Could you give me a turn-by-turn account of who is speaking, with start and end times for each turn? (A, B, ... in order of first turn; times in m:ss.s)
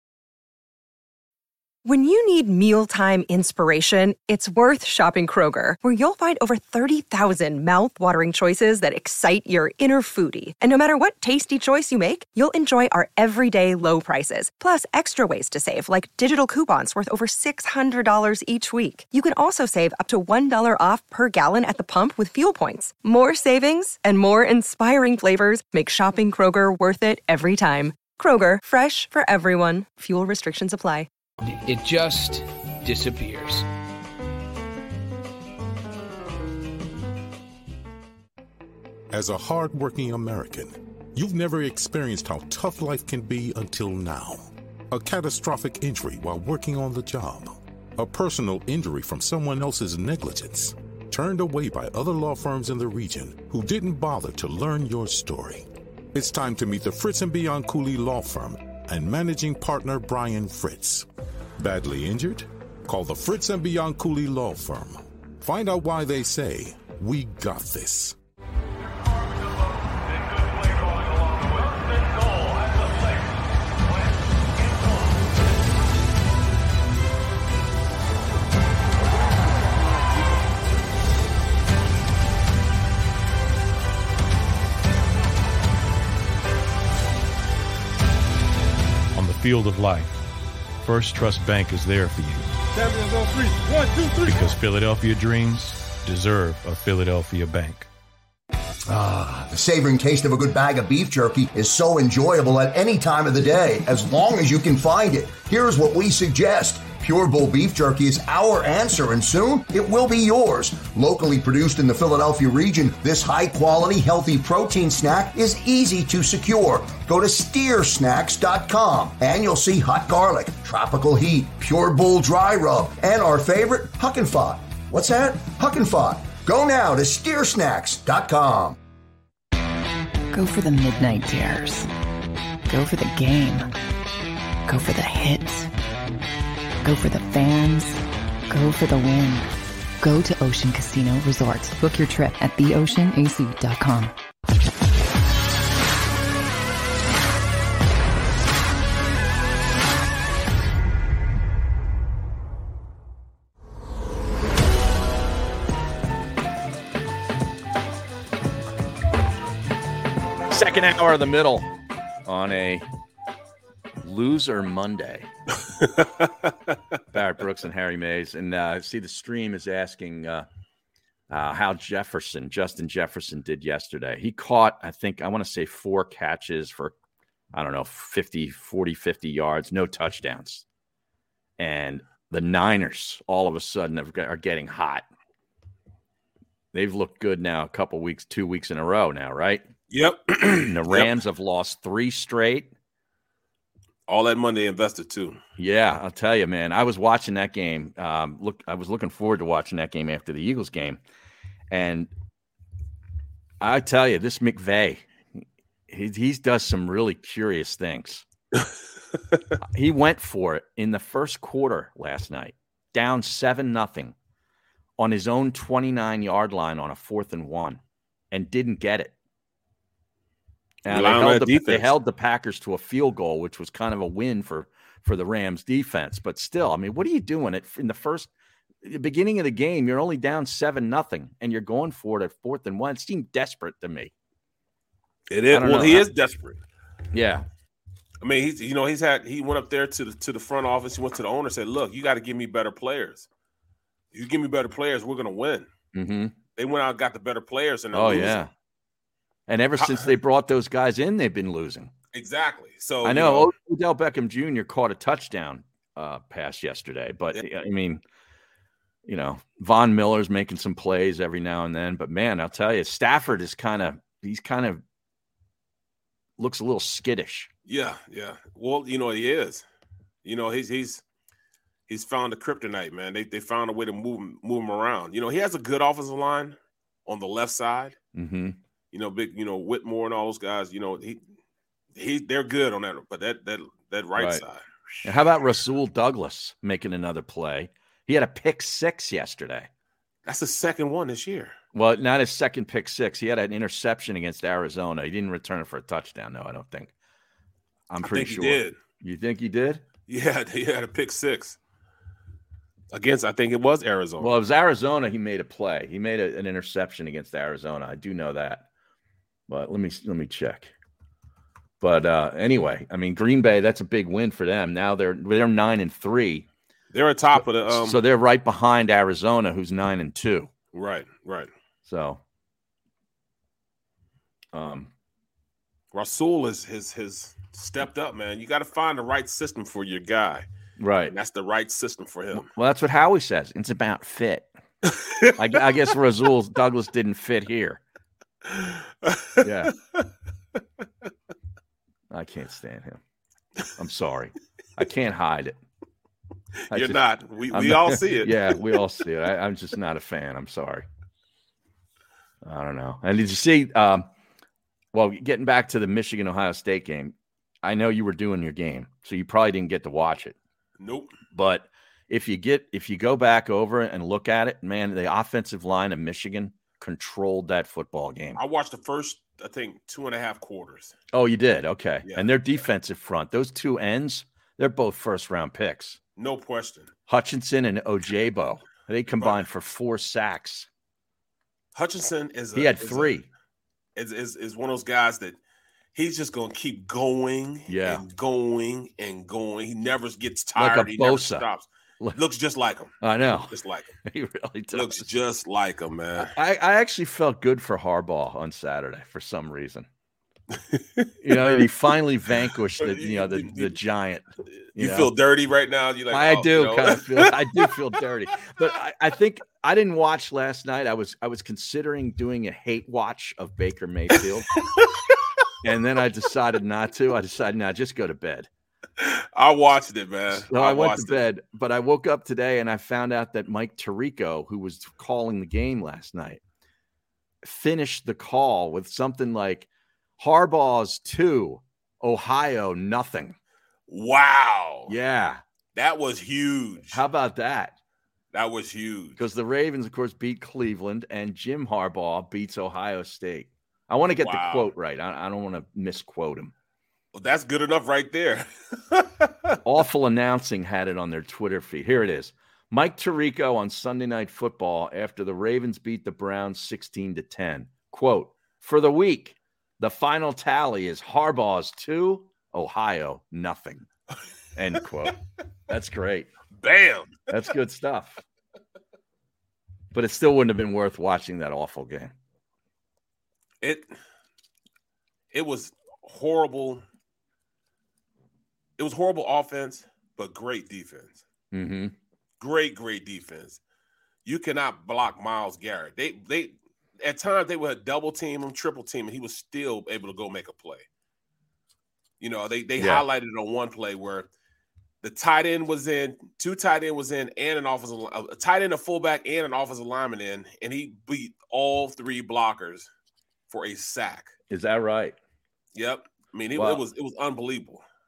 0:01.8-0:31.1 A
0:31.4-0:33.6 B
0:39.1-1:01.1 C
1:01.6-1:08.1 C
1:29.1-1:30.2 D
1:30.8-1:32.5 D
1:34.2-1:37.9 D
1:38.9-2:08.8 E
2:10.3-2:11.9 F
2:12.7-2:13.7 F
2:14.6-2:15.7 F
2:16.8-2:19.5 F
2:20.0-2:24.1 F
2:40.5-2:41.7 G
2:42.2-2:42.8 G
2:44.0-2:45.3 G
2:45.8-2:46.5 H
2:47.1-2:50.5 G
2:51.3-2:56.9 G
2:57.5-3:00.6 G
3:01.6-3:05.0 G
3:06.7-3:09.6 G
3:09.9-3:11.1 H
3:10.5-3:12.7 G
3:14.1-3:15.4 H
3:15.6-3:21.0 G
3:21.7-3:22.1 G
3:23.6-3:25.0 G
3:25.9-3:28.2 G
3:29.6-3:34.1 G
3:35.0-3:37.8 G
3:38.3-3:39.1 G
3:40.8-3:48.3 G
3:40.8-3:41.9 H
3:48.8-3:54.1 G
3:55.3-3:56.6 H
3:55.5-3:56.1 G
3:57.1-3:57.4 G
3:58.2-4:03.3 H
4:04.1-4:05.7 H
4:05.9-4:06.3 G
4:06.6-4:08.5 H
4:07.9-4:08.5 G
4:09.5-4:11.9 G
4:09.8-4:10.1 H
4:12.1-4:13.5 H
4:13.0-4:18.0 G
4:19.0-4:24.8 G
4:26.4-4:27.5 G
4:27.6-4:29.6 H
4:30.2-4:31.0 H
4:31.9-4:38.0 H
4:38.1-4:38.6 G
4:38.9-4:41.2 H
4:41.9-4:44.6 H
4:44.2-4:44.4 G
4:45.0-4:49.7 G
4:50.2-4:51.6 H
4:51.7-4:56.9 G
4:57.9-4:59.8 G
4:58.0-4:58.8 H
5:00.1-5:01.6 H
5:02.9-5:04.4 H
5:04.2-5:08.6 G
5:09.5-5:10.7 G
5:11.8-5:16.4 G
5:16.9-5:18.0 H
5:17.4-5:20.5 G
5:20.7-5:21.5 H
5:21.8-5:22.2 G
5:24.5-5:24.9 G
5:25.9-5:30.4 H
5:30.8-5:31.1 G
5:31.1-5:32.5 H
5:32.3-5:34.5 G
5:34.8-5:35.3 H
5:35.3-5:37.8 G
5:38.4-5:40.0 H
5:39.4-5:39.7 G
5:42.1-5:43.0 G
5:43.7-5:45.6 G
5:46.7-5:48.7 H
5:46.7-5:50.8 G
5:52.4-5:54.1 G
5:54.9-6:00.4 G
6:00.8-6:01.1 H
6:01.3-6:08.4 G
6:08.4-6:10.9 H
6:11.1-6:16.0 G
6:12.0-6:12.3 H
6:16.2-6:16.9 H
6:17.1-6:20.7 G
6:19.2-6:19.4 H
6:21.7-6:23.2 H
6:22.5-6:23.3 G
6:24.0-6:25.4 H
6:25.9-6:33.9 H
6:27.7-6:28.0 G
6:30.6-6:31.4 G
6:33.0-6:33.5 G
6:34.0-6:35.1 G
6:34.7-6:36.3 H
6:36.2-6:39.9 G
6:40.5-6:41.7 H
6:41.2-6:45.1 G
6:42.8-6:43.8 H
6:44.7-6:47.7 H
6:46.1-6:54.6 G
6:54.5-6:55.2 H
6:55.6-6:58.5 G
6:59.0-7:01.2 H
7:00.3-7:06.4 G
7:07.4-7:09.7 G
7:10.2-7:13.4 G
7:13.9-7:14.9 H
7:14.9-7:15.4 G
7:15.7-7:17.0 H
7:16.9-7:17.8 G
7:18.3-7:19.2 H
7:19.2-7:26.5 G
7:24.2-7:24.7 H
7:27.1-7:29.6 H
7:29.6-7:43.9 G
7:44.6-7:46.3 G
7:46.5-7:47.2 H
7:47.3-7:48.2 G
7:49.9-7:52.1 G
7:53.6-7:53.9 H
7:55.3-7:56.8 H
7:58.8-8:01.2 H
8:01.5-8:01.9 G
8:02.4-8:03.6 H
8:04.2-8:10.8 H
8:12.2-8:14.3 H
8:12.8-8:13.0 G
8:15.0-8:22.9 H
8:23.5-8:24.3 H
8:24.5-8:25.2 G
8:25.7-8:27.8 H
8:26.6-8:26.8 G